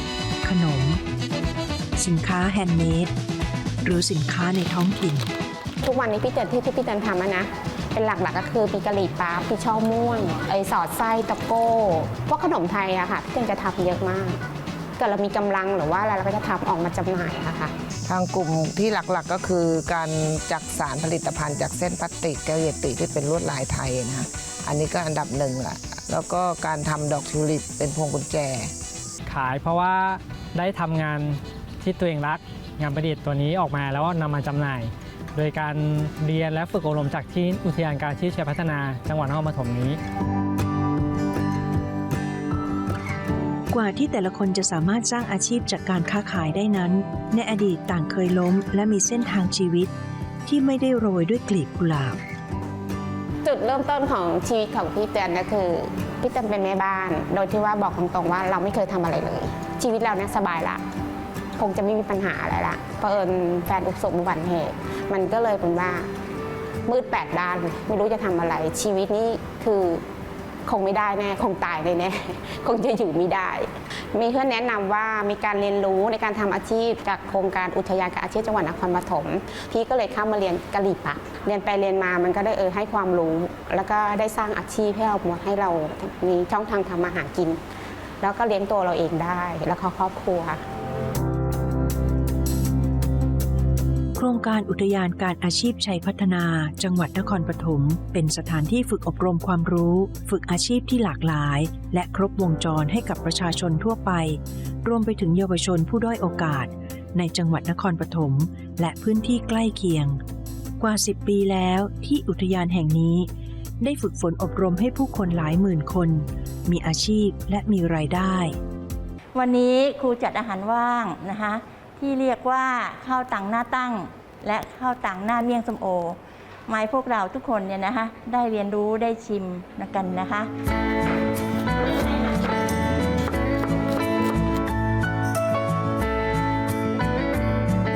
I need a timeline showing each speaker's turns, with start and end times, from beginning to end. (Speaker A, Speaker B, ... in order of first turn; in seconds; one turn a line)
Speaker A: 0.4-1.0
Speaker A: 2.0-3.1
Speaker A: 3.8-5.3
Speaker B: 5.8-14.4
Speaker B: 15.0-17.7
Speaker C: 18.1-28.7
Speaker D: 29.3-40.0
Speaker A: 43.7-49.9
Speaker A: 50.5-52.2
Speaker B: 53.4-60.8
Speaker B: 61.6-66.1
Speaker B: 66.9-70.0
Speaker B: 70.6-87.6
Speaker B: 88.2-90.6
Speaker A: 94.2-110.2
Speaker A: 110.8-113.3
Speaker A: 113.8-118.5
Speaker E: 119.3-130.5